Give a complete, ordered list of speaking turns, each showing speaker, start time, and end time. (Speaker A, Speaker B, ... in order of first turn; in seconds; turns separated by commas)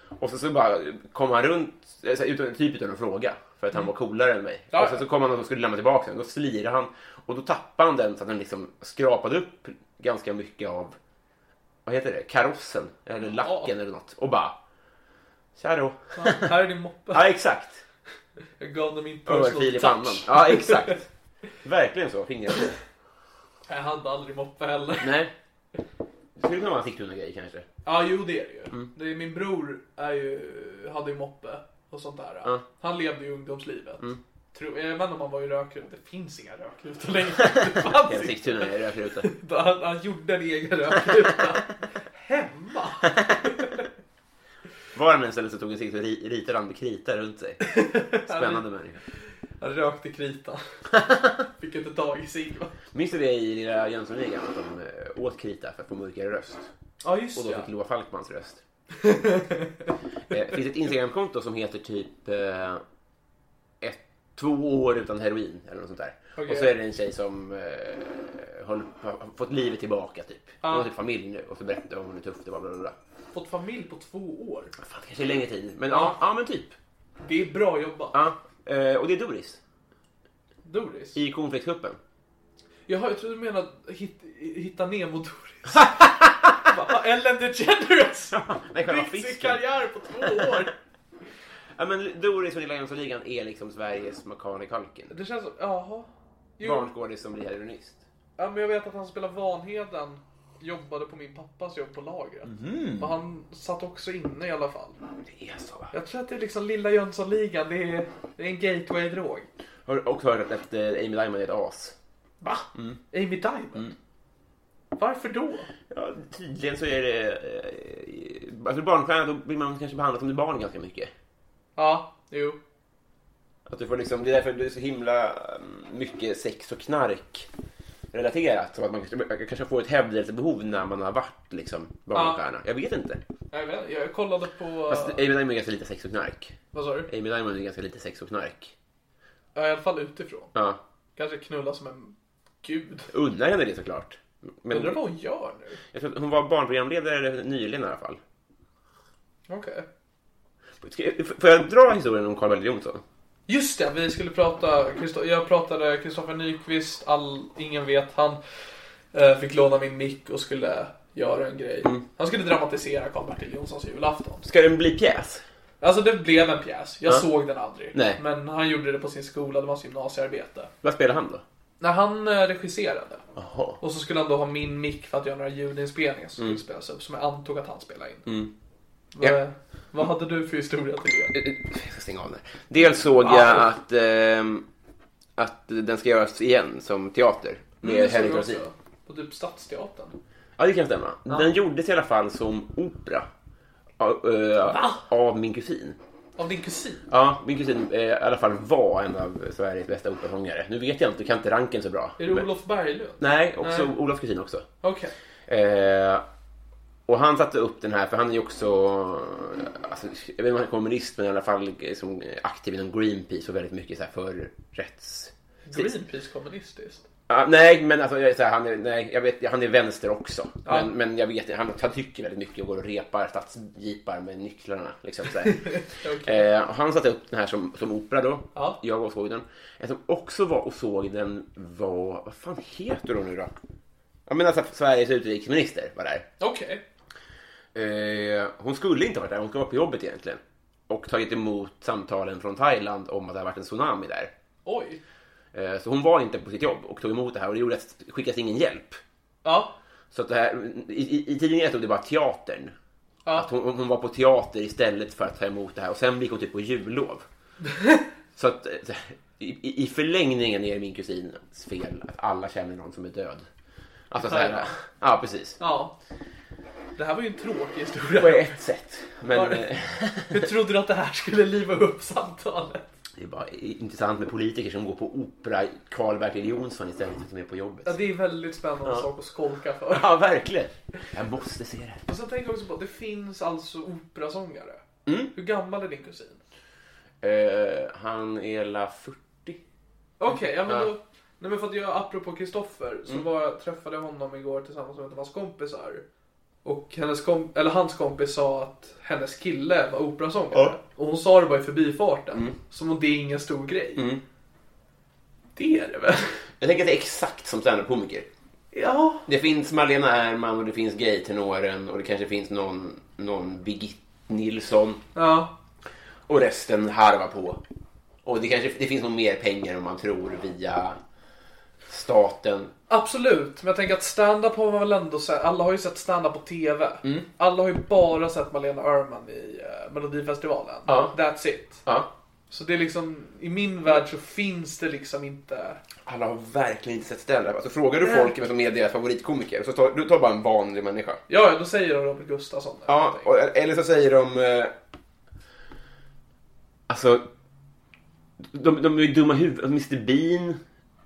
Speaker A: 0.2-11.0, Speaker B: 4.7-5.0, Speaker A: 11.9-14.6, Speaker B: 13.2-13.7, Speaker A: 15.6-17.8, Speaker B: 16.1-17.2, Speaker B: 18.6-21.0, Speaker A: 19.3-21.1, Speaker A: 21.6-22.8, Speaker B: 23.7-25.1, Speaker A: 25.0-25.3, Speaker A: 26.4-27.7, Speaker B: 27.9-38.7, Speaker A: 37.4-39.3, Speaker B: 39.2-43.8, Speaker A: 44.9-47.7, Speaker B: 47.6-48.6, Speaker A: 48.2-49.0, Speaker B: 49.6-50.6, Speaker A: 50.9-51.5, Speaker B: 51.6-52.7, Speaker A: 52.9-56.7, Speaker B: 57.0-57.7, Speaker A: 57.4-58.6, Speaker B: 59.0-59.9, Speaker A: 60.3-62.8, Speaker A: 63.8-73.0, Speaker B: 66.4-66.7, Speaker B: 70.6-70.9, Speaker B: 73.3-74.7, Speaker A: 74.8-76.8, Speaker B: 75.9-76.2, Speaker B: 77.2-78.2, Speaker A: 78.1-79.6, Speaker B: 80.6-81.2, Speaker A: 81.2-82.0, Speaker B: 82.9-85.9, Speaker A: 85.7-86.6, Speaker B: 86.6-90.7, Speaker A: 88.3-89.6, Speaker A: 90.2-90.7, Speaker A: 91.8-95.1, Speaker B: 95.1-96.1, Speaker B: 96.6-96.9, Speaker A: 96.6-98.0, Speaker B: 98.4-105.0, Speaker A: 102.5-103.2, Speaker A: 105.3-105.9, Speaker B: 105.9-109.5, Speaker A: 109.9-112.0, Speaker B: 112.4-113.9, Speaker A: 112.7-113.0, Speaker B: 115.0-115.7, Speaker A: 115.9-121.1, Speaker B: 121.8-122.6, Speaker A: 123.7-127.5, Speaker A: 128.1-133.2, Speaker B: 132.1-132.4, Speaker B: 133.5-135.2, Speaker A: 134.9-136.6, Speaker B: 136.7-137.1, Speaker A: 137.1-138.7, Speaker B: 139.6-140.5, Speaker A: 140.6-140.8, Speaker B: 141.2-143.1, Speaker A: 143.1-145.0, Speaker B: 144.7-145.8, Speaker A: 145.9-148.2, Speaker B: 149.5-149.9, Speaker A: 150.8-153.0, Speaker B: 153.5-158.4, Speaker B: 159.1-164.5, Speaker A: 164.4-165.4, Speaker B: 165.8-170.7, Speaker A: 167.9-168.2, Speaker A: 170.8-171.4, Speaker B: 171.8-173.2, Speaker A: 173.4-173.8, Speaker B: 173.8-178.3, Speaker A: 178.3-178.5, Speaker B: 179.2-181.3, Speaker A: 181.3-184.7, Speaker B: 183.2-183.7, Speaker A: 185.4-188.6, Speaker B: 187.8-190.2, Speaker A: 190.6-193.3, Speaker A: 194.0-196.0, Speaker B: 194.7-195.0, Speaker B: 196.4-197.0, Speaker A: 197.1-202.5, Speaker B: 202.2-203.9, Speaker A: 203.2-204.7, Speaker B: 204.8-205.1, Speaker A: 205.5-206.2, Speaker A: 207.1-215.9, Speaker B: 215.7-217.0, Speaker A: 217.3-233.5, Speaker B: 220.7-220.9, Speaker B: 225.4-226.5, Speaker B: 228.5-228.8, Speaker A: 234.3-236.3, Speaker B: 236.4-236.8, Speaker A: 237.8-244.3, Speaker B: 244.7-245.0, Speaker A: 245.5-249.0, Speaker B: 249.4-249.8, Speaker A: 250.1-252.7, Speaker A: 253.3-257.2, Speaker B: 257.7-258.0, Speaker A: 258.4-263.5, Speaker A: 264.1-265.6, Speaker B: 264.2-264.7, Speaker B: 265.6-265.9, Speaker B: 267.0-268.6, Speaker A: 268.2-270.5, Speaker B: 269.3-269.6, Speaker B: 270.3-272.9, Speaker A: 273.2-278.0, Speaker B: 277.9-280.1, Speaker A: 279.9-282.0, Speaker B: 282.1-284.8, Speaker A: 285.1-285.3, Speaker B: 285.3-286.4, Speaker A: 287.2-289.6, Speaker B: 290.2-296.1, Speaker A: 290.3-290.9, Speaker B: 296.6-304.1, Speaker A: 300.5-300.8, Speaker A: 304.0-304.2, Speaker B: 305.6-306.4, Speaker A: 306.6-308.3, Speaker B: 308.7-309.3, Speaker A: 309.3-315.0, Speaker B: 315.1-315.5, Speaker A: 316.3-317.6, Speaker A: 318.2-321.0, Speaker A: 321.9-322.7, Speaker B: 322.9-331.8, Speaker A: 330.9-331.1, Speaker A: 331.8-332.1, Speaker B: 332.5-335.8, Speaker A: 336.1-341.2, Speaker B: 338.0-338.4, Speaker B: 341.3-343.4, Speaker A: 342.9-344.7, Speaker A: 346.9-347.2, Speaker A: 348.4-350.6